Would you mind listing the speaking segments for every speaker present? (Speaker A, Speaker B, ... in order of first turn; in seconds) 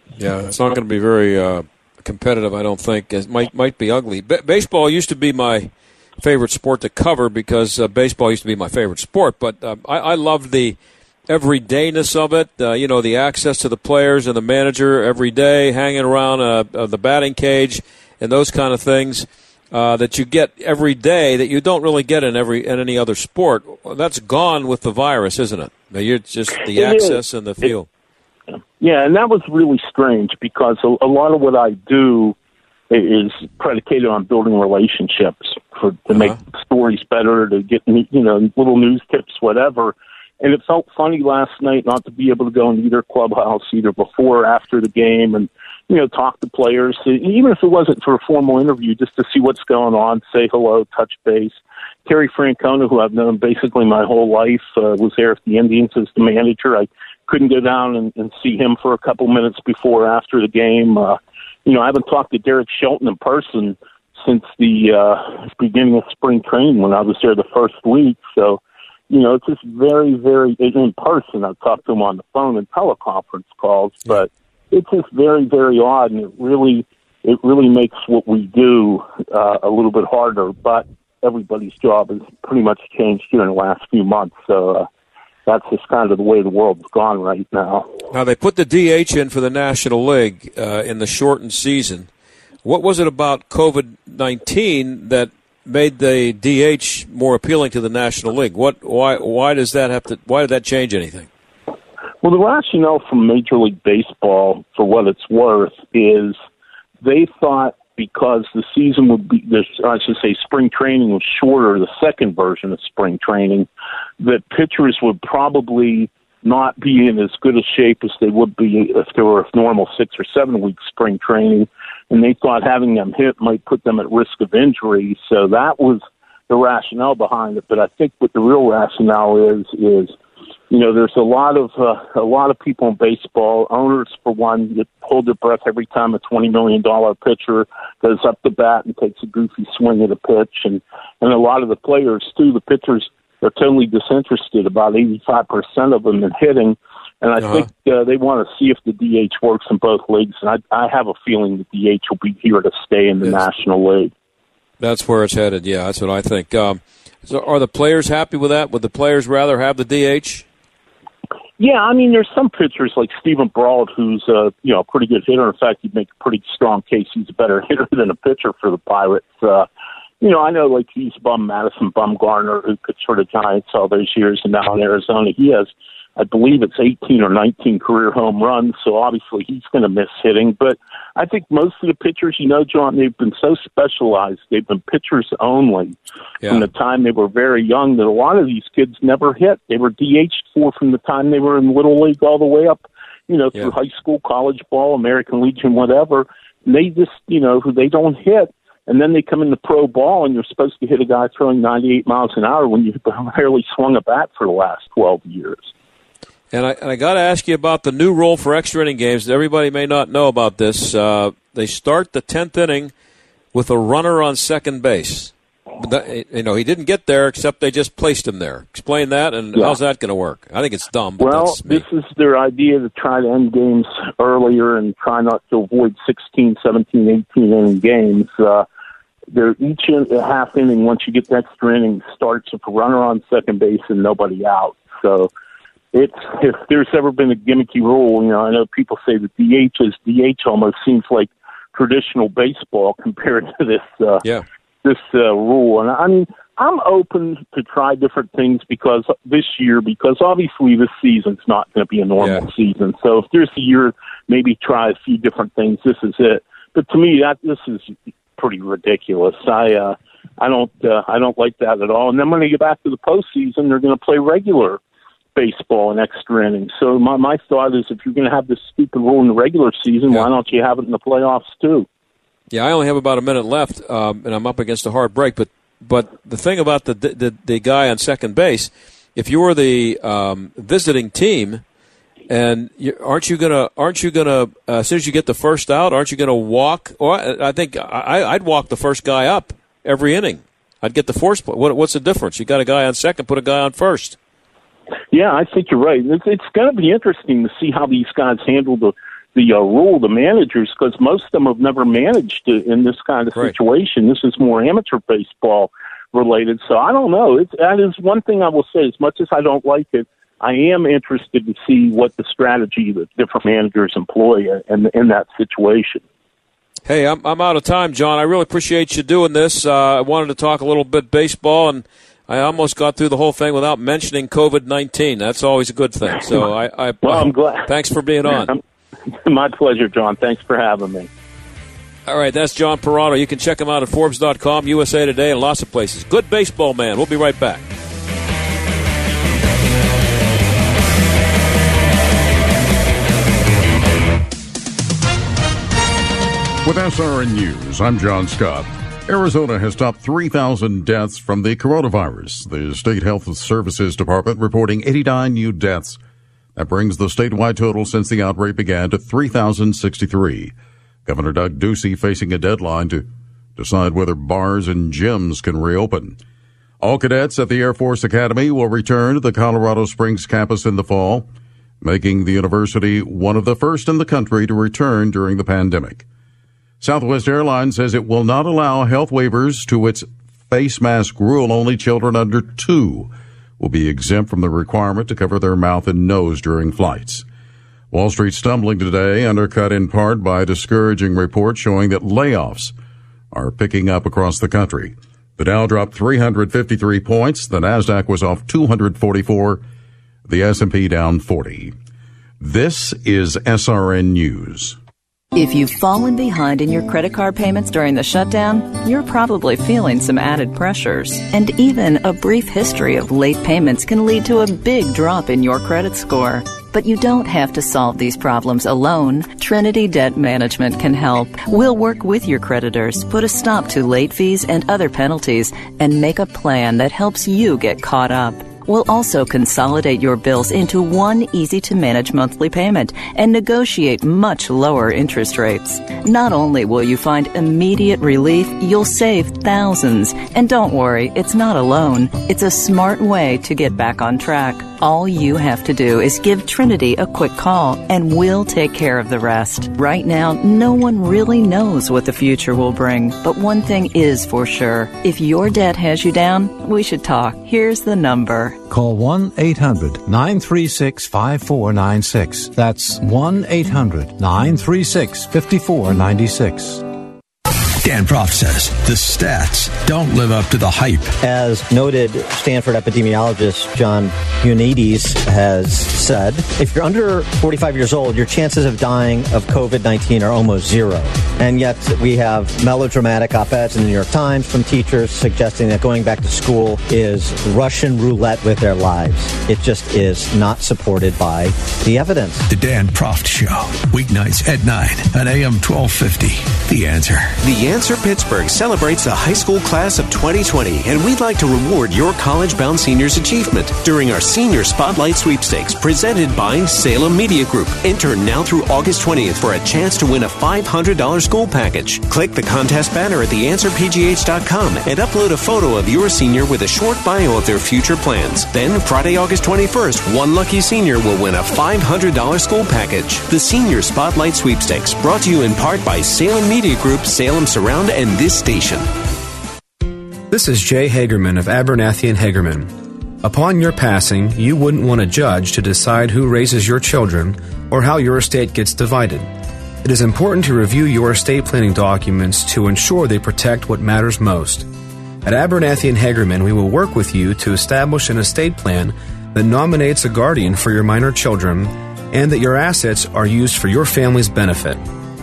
Speaker A: 0.2-10.8, 11.3-27.9, 88.1-92.1, 92.6-101.3, 147.4-147.7, 154.8-160.5, 186.4-186.7, 206.5-212.9, 213.5-221.8, 252.2-252.5, 272.5-281.6, 282.3-294.2, 316.9-328.6, 332.1-337.6
Speaker B: 26.7-27.7, 28.8-32.4, 32.9-84.9, 85.5-88.0, 102.2-106.4, 107.0-113.7, 114.2-130.2, 130.7-154.1, 161.6-169.7, 170.2-185.9, 186.5-205.7, 221.2-228.7, 229.3-235.3, 235.9-244.2, 244.8-264.8, 265.4-271.9, 295.1-316.0, 327.0-327.7, 328.3-328.6, 329.2-331.1
Speaker C: 346.6-356.0, 356.6-360.5, 361.1-366.2, 366.8-371.3, 371.8-376.1, 376.8-387.2, 387.9-392.7, 393.3-399.6, 400.3-401.8, 402.4-404.8
Speaker D: 405.3-458.6
Speaker E: 458.7-466.8
Speaker F: 467.8-471.1, 492.5-497.4
Speaker G: 471.2-492.4
Speaker H: 497.4-528.9
Speaker I: 530.3-539.3, 539.8-544.7, 545.2-554.9